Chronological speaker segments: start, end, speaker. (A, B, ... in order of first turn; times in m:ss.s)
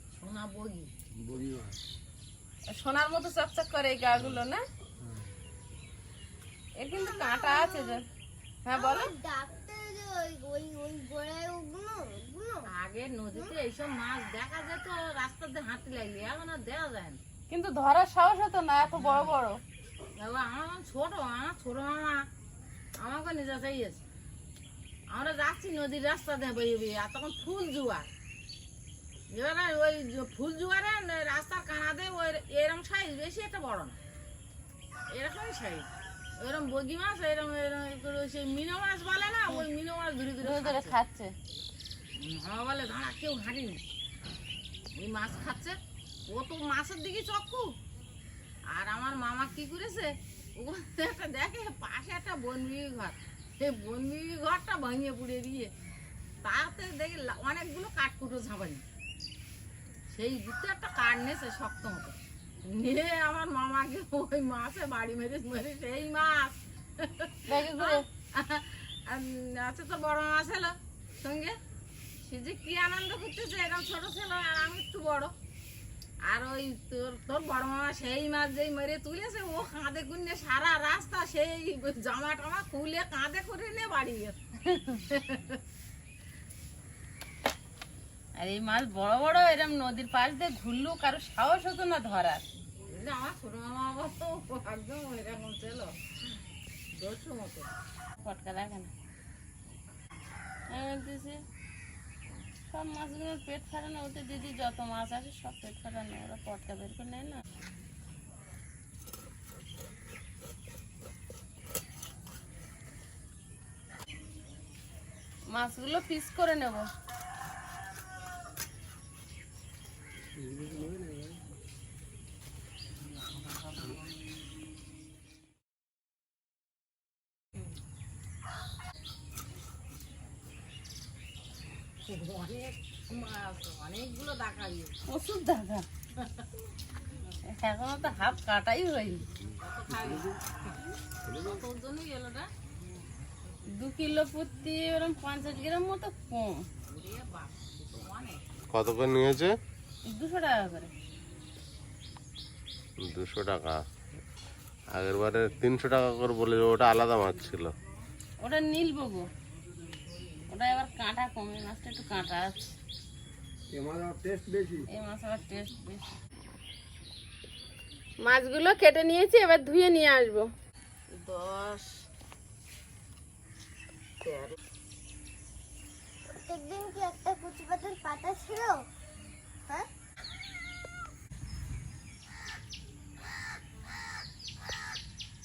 0:00.2-0:00.9 A
0:01.1-0:01.8 B
0:02.7-0:04.6 C
0:04.2-0:04.4 B
0:05.0-0:05.3 B
0:06.8-0:08.0 C
0:07.0-0:08.0 D
0:08.6-0:09.1 C
0:08.7-0:12.7 D
0:12.7-0:17.2 A
0:17.5-0:19.6 C
0:18.8-0:19.3 A
0:20.2-0:22.3 A
0:23.0-0:24.0 A
0:25.1-0:28.1 A
0:29.3-0:34.0 A
0:35.1-0:41.0 A
0:40.4-0:41.3 C
0:42.2-0:43.8 A
0:44.9-0:47.7 A
0:48.7-0:55.7 A
0:56.4-0:58.8 A
1:00.1-1:11.6 A
1:07.5-1:08.0 C
1:12.2-1:15.3 A
1:16.2-1:25.6 A
1:28.4-1:32.4 C
1:32.9-1:36.0 A
1:36.9-1:37.7 A
1:38.2-1:38.9 C
1:40.7-1:41.4 C
1:42.7-1:47.4 C
1:55.5-1:56.9 C
2:00.3-2:01.4 B
2:03.0-2:04.0 A
2:12.0-2:15.0 A
2:15.1-2:15.8 C
2:16.2-2:16.4 A
2:17.3-2:19.2 C
2:19.6-2:20.3 A
2:19.9-2:20.4 B
2:21.2-2:21.6 B
2:21.4-2:22.5 A
2:23.7-2:26.7 C
2:26.8-2:28.5 A
2:28.7-2:29.5 E
2:30.0-2:30.9 C
2:33.0-2:33.8 E
2:34.9-2:37.7 E
2:38.4-2:39.3 C
2:40.5-2:42.7 C
2:43.7-2:44.9 B
2:44.9-2:46.1 C
2:48.2-2:50.5 C
2:51.1-2:52.0 C
2:54.2-2:54.5 C
2:56.4-2:58.8 D